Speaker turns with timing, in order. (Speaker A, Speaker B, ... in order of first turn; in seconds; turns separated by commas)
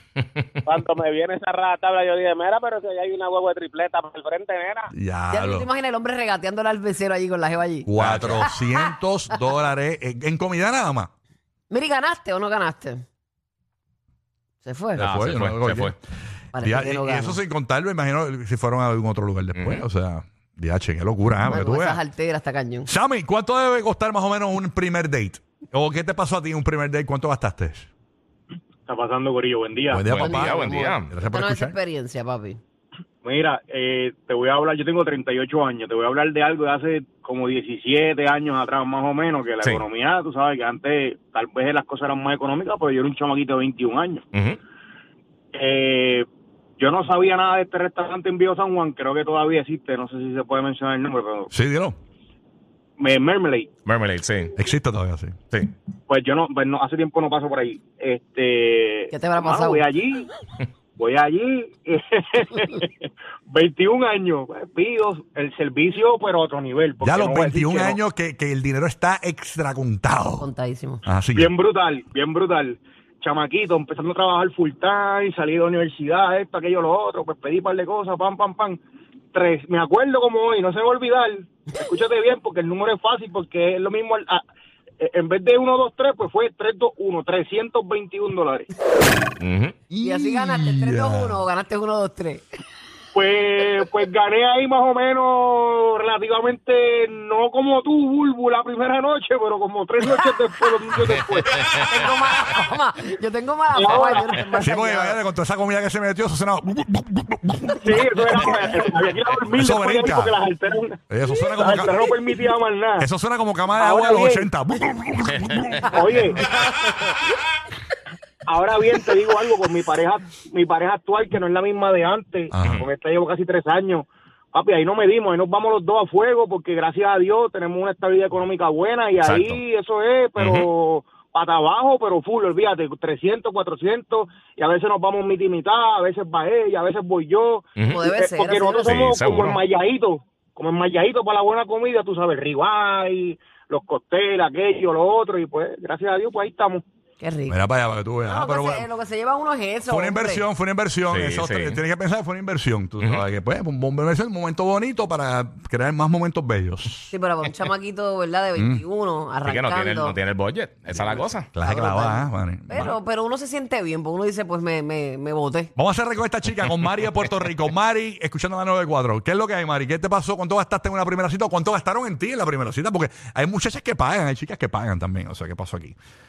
Speaker A: 0.6-4.9, Speaker B: 4.9-5.7, Speaker C: 5.3-8.9, Speaker B: 7.8-11.1, Speaker D: 8.0-8.4, Speaker C: 11.7-13.0, Speaker C: 14.6-15.0, Speaker B: 14.9-15.9, Speaker D: 15.0-15.9, Speaker C: 16.5-17.4, Speaker B: 16.6-22.0, Speaker D: 19.5-19.8, Speaker C: 21.4-22.9, Speaker B: 22.8-27.9, Speaker E: 28.9-30.0, Speaker B: 29.9-31.8, Speaker D: 30.1-31.1, Speaker C: 30.1-32.6, Speaker E: 33.2-44.2, Speaker D: 44.3-44.6, Speaker E: 45.5-46.3, Speaker E: 46.8-51.5, Speaker B: 51.5-52.0, Speaker E: 53.0-53.7, Speaker D: 53.9-54.5, Speaker B: 54.5-55.3, Speaker E: 56.1-60.3, Speaker C: 59.1-59.9, Speaker E: 61.0-68.0, Speaker B: 67.0-70.5, Speaker C: 70.4-71.0, Speaker B: 71.0-71.5, Speaker E: 71.3-78.8, Speaker E: 79.3-84.4, Speaker E: 85.0-88.7, Speaker D: 89.4-89.7, Speaker B: 89.9-91.4, Speaker C: 90.0-92.4, Speaker E: 93.1-101.6, Speaker D: 101.0-101.9, Speaker C: 101.9-105.2, Speaker E: 103.7-104.3, Speaker B: 104.6-108.5, Speaker E: 107.8-113.1, Speaker B: 109.5-110.3, Speaker B: 111.1-112.0, Speaker B: 113.0-115.9, Speaker E: 113.8-114.5, Speaker E: 115.9-116.4, Speaker C: 116.8-117.1, Speaker E: 118.5-146.8, Speaker B: 122.5-122.8, Speaker D: 122.6-122.8, Speaker D: 129.2-129.6, Speaker D: 130.4-130.7, Speaker D: 137.8-138.0, Speaker C: 137.9-139.1, Speaker D: 138.8-139.6, Speaker C: 147.2-147.6, Speaker B: 147.5-148.9, Speaker C: 148.2-150.4, Speaker B: 149.8-157.1, Speaker D: 151.1-151.8, Speaker C: 157.1-160.2, Speaker B: 158.6-158.8, Speaker D: 159.4-161.5, Speaker C: 160.9-165.7, Speaker B: 161.5-162.9, Speaker B: 165.8-175.9